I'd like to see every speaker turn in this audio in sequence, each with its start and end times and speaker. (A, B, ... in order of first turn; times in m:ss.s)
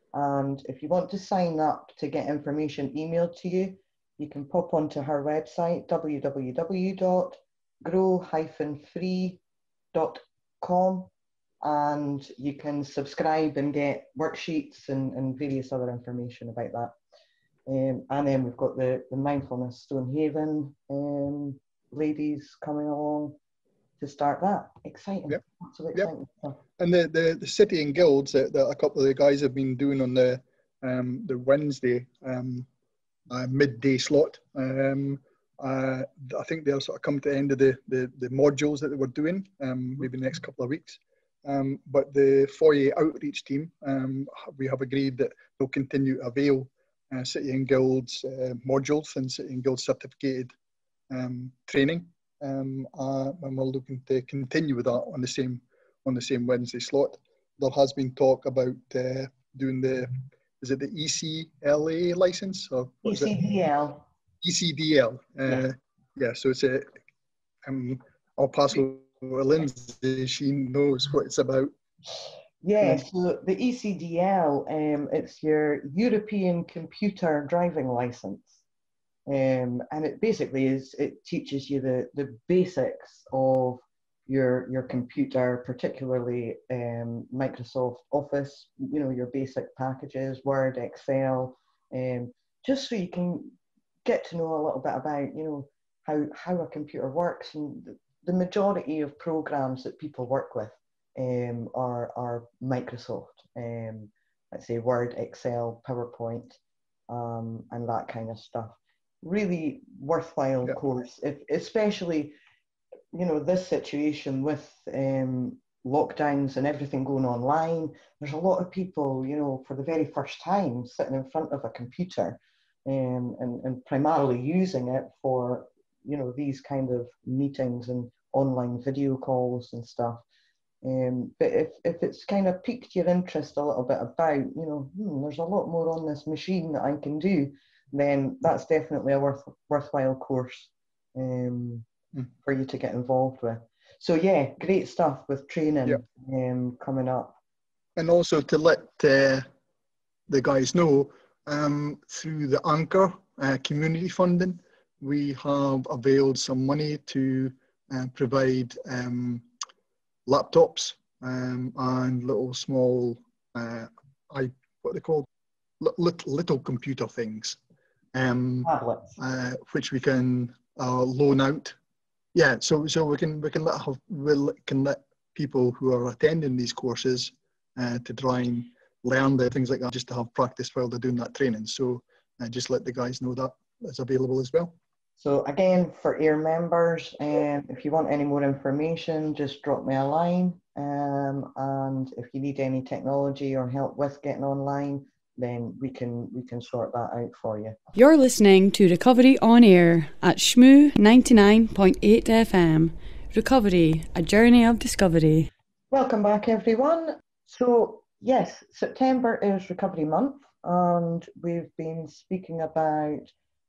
0:00.1-0:09.4 A
0:09.9-0:11.1 A
0:11.6-0:16.9 A
0:17.7-0:23.4 A
0:24.0-0:26.6 A
0:26.8-0:32.7 B
0:33.3-0:50.5 B
0:51.1-1:03.3 B
1:03.0-1:04.0 A
1:04.4-1:06.9 B
1:07.6-1:11.7 B
1:12.6-1:18.6 A
1:19.3-1:52.4 A
1:53.1-2:10.2 A
2:10.8-2:21.8 A
2:22.4-2:27.4 A
2:28.0-2:29.5 B
2:30.3-2:39.4 B
2:40.2-2:45.3 B
2:45.8-2:47.6 B
2:48.1-2:51.8 B
2:48.6-2:49.2 A
2:52.3-3:04.7 B
3:05.2-3:17.7 A
3:18.0-3:25.5 C
3:25.9-3:33.3 A